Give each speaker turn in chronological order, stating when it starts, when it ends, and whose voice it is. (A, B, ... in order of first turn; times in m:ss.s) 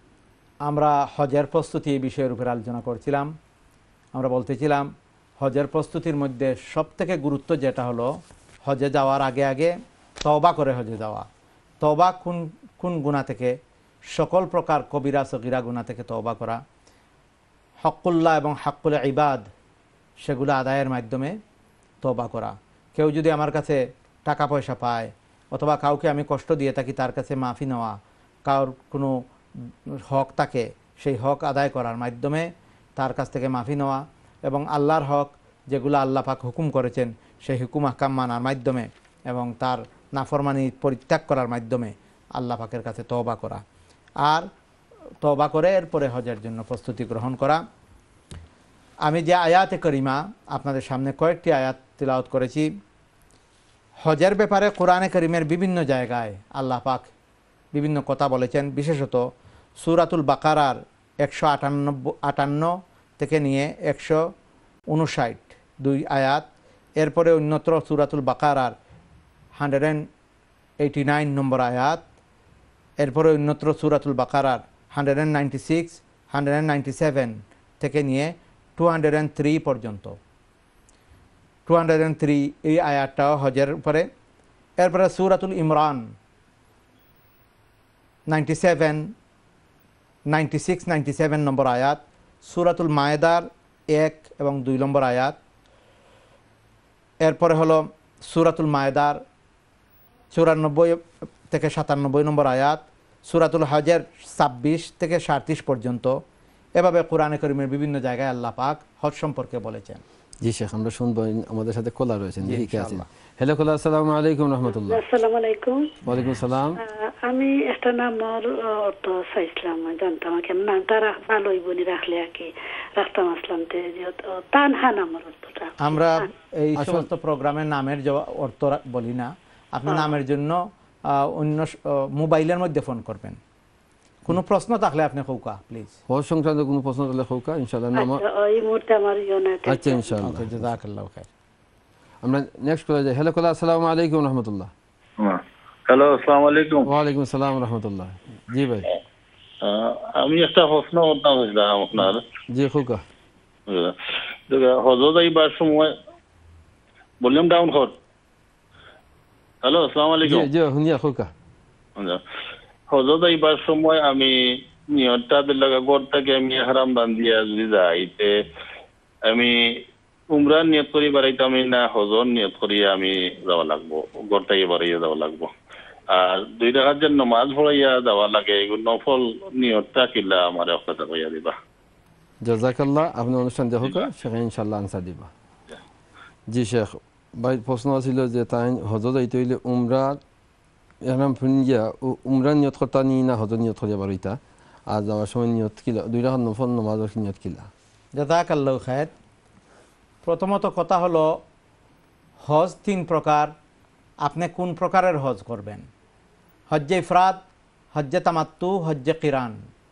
0:00.6-0:03.3 A
0:04.1-0:08.1 A
0:08.6-0:11.3 A
0:11.8-0:13.6 A
0:14.1-0:16.6 A
0:17.8-0:19.5 A
0:20.2-0:21.4 A
0:22.0-0:27.9 A
0:28.4-0:29.2 A
0:30.1-0:43.6 A
0:44.2-0:44.5 A
0:45.2-0:47.6 A
0:49.0-0:52.7 A
0:54.0-0:57.1 A
0:57.7-0:59.2 A
0:59.8-1:04.2 A
1:04.9-1:06.4 A
1:07.0-1:08.7 A
1:09.5-1:10.1 A
1:10.8-1:12.0 A
1:13.0-1:20.2 A
1:21.7-1:24.1 A
1:24.8-1:26.1 A
1:28.3-1:29.1 A
1:30.3-1:35.4 A
1:37.2-1:39.2 A
1:40.3-1:46.2 A
1:46.8-1:50.0 A
1:50.4-1:55.0 B
1:52.4-1:53.0 A
1:54.7-1:55.9 C
1:56.0-1:56.8 B
1:56.8-2:06.3 C
2:05.8-2:13.4 A
2:06.8-2:07.1 B
2:14.2-2:16.0 A
2:16.1-2:18.2 B
2:17.9-2:20.2 C
2:19.6-2:20.8 B
2:20.2-2:21.3 A
2:22.2-2:24.7 B
2:25.2-2:26.9 D
2:26.8-2:28.9 B
2:29.6-2:32.2 D
2:32.5-2:33.0 B
2:33.7-2:33.9 D
2:34.5-2:35.9 D
2:37.2-2:37.9 D
2:39.6-2:40.5 D
2:40.2-2:41.3 B
2:42.9-2:48.3 D
2:49.3-2:49.6 D
2:50.3-2:55.5 D
2:56.1-3:01.5 D
3:02.4-3:05.3 B
3:06.5-3:10.2 B
3:11.0-3:14.4 B
3:14.9-3:17.7 B
3:18.2-3:19.1 A
3:20.2-3:21.4 A
3:22.4-3:23.5 A
3:24.2-3:25.8 A
3:26.7-3:27.4 A
3:27.9-3:29.6 A